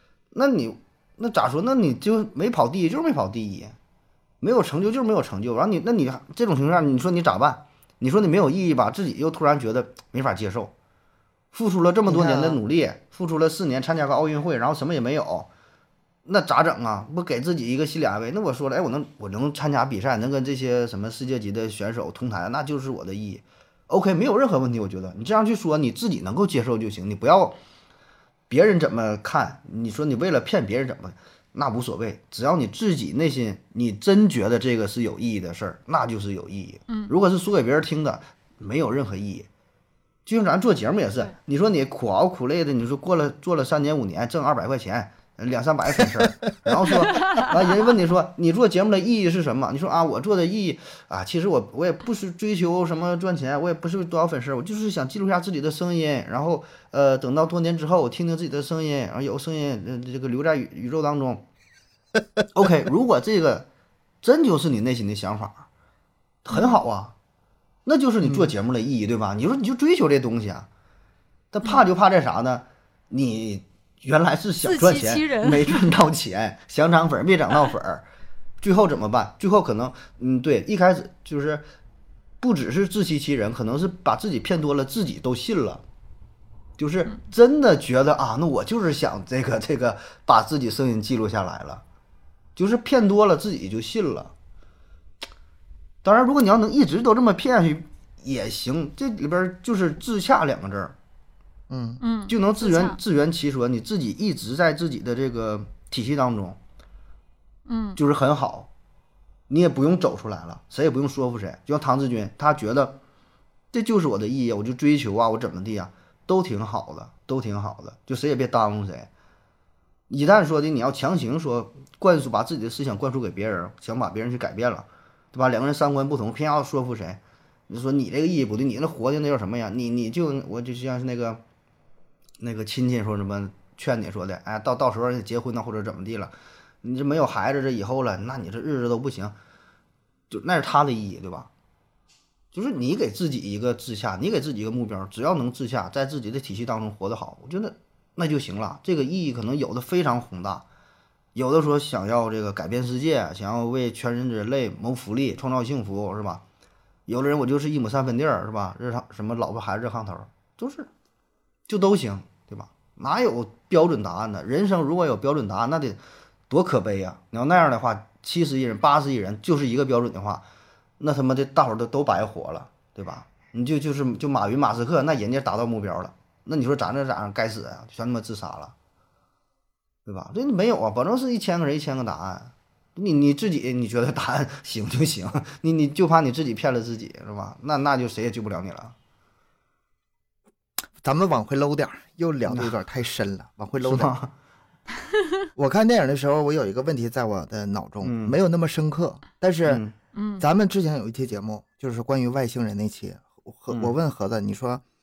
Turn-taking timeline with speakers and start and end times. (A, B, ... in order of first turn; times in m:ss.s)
0:00.3-0:03.7 A
0:04.4-0:10.7 A
0:11.5-0:15.5 A
0:12.0-0:12.6 B
0:16.2-0:27.6 A
0:28.5-0:39.5 A
0:40.2-1:01.4 A
0:46.9-0:47.5 C
1:02.5-1:03.7 A
1:04.2-1:05.7 A
1:06.4-1:07.1 A
1:06.5-1:06.8 C
1:07.8-1:10.7 A
1:08.2-1:08.5 B
1:11.5-1:18.0 A
1:14.6-1:15.9 C
1:18.6-1:21.6 A
1:22.4-1:25.8 A
1:26.8-1:31.8 A
1:32.6-1:34.3 A
1:36.0-1:40.9 A
1:41.7-1:42.0 B
1:42.0-1:43.0 C
1:42.3-1:46.6 A
1:47.7-1:48.0 C
1:48.0-1:48.7 A
1:49.5-1:53.0 A
1:53.7-1:59.1 A
2:00.1-2:11.4 A
2:12.4-2:19.4 A
2:20.3-2:21.5 A
2:22.5-2:30.6 A
2:31.3-2:36.4 A
2:37.1-2:40.9 A
2:41.7-2:50.4 A
2:51.0-2:58.7 A
3:00.0-3:08.9 A
3:11.0-3:14.1 B
3:13.8-3:14.3 A
3:15.6-3:19.8 B
3:18.0-3:18.4 A
3:19.6-3:19.9 A
3:20.1-3:20.4 C
3:20.4-3:24.8 B